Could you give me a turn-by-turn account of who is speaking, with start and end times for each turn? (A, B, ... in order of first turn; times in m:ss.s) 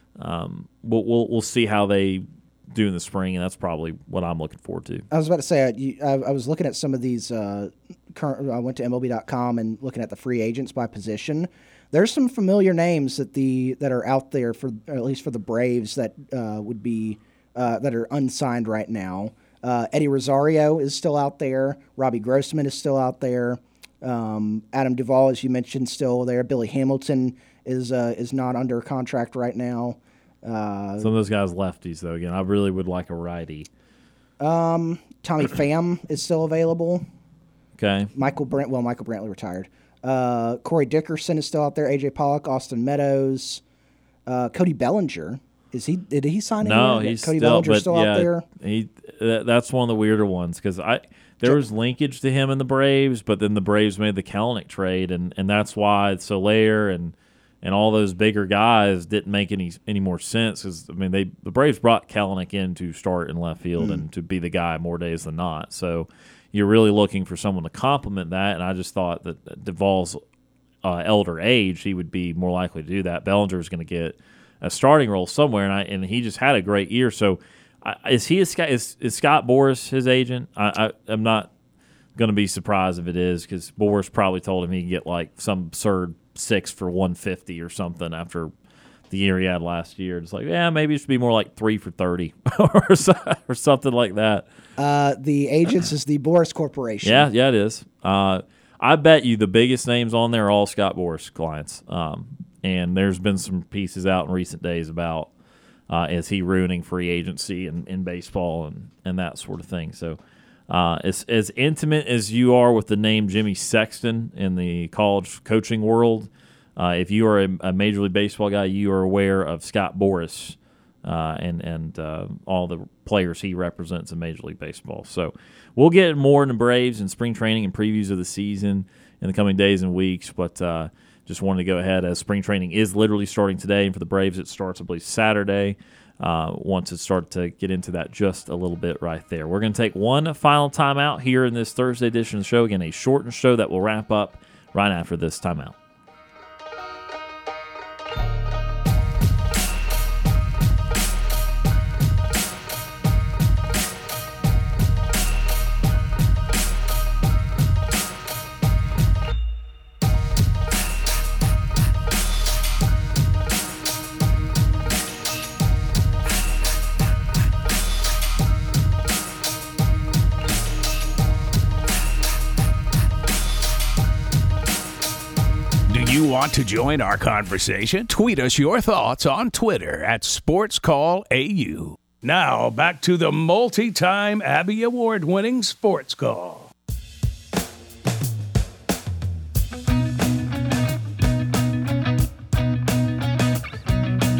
0:00.2-0:05.0 A
0:05.1-0:31.1 B
0:31.0-0:33.7 A
0:34.4-0:37.0 B
0:37.8-0:38.1 A
0:38.1-0:43.6 B
0:44.2-0:48.4 B
0:46.6-1:10.2 A
1:03.8-1:04.0 B
1:10.8-1:21.5 A
1:22.2-1:28.5 A
1:29.1-1:34.5 A
1:34.8-1:37.3 B
1:37.0-1:45.3 A
1:45.9-2:25.7 A
2:55.9-3:06.7 C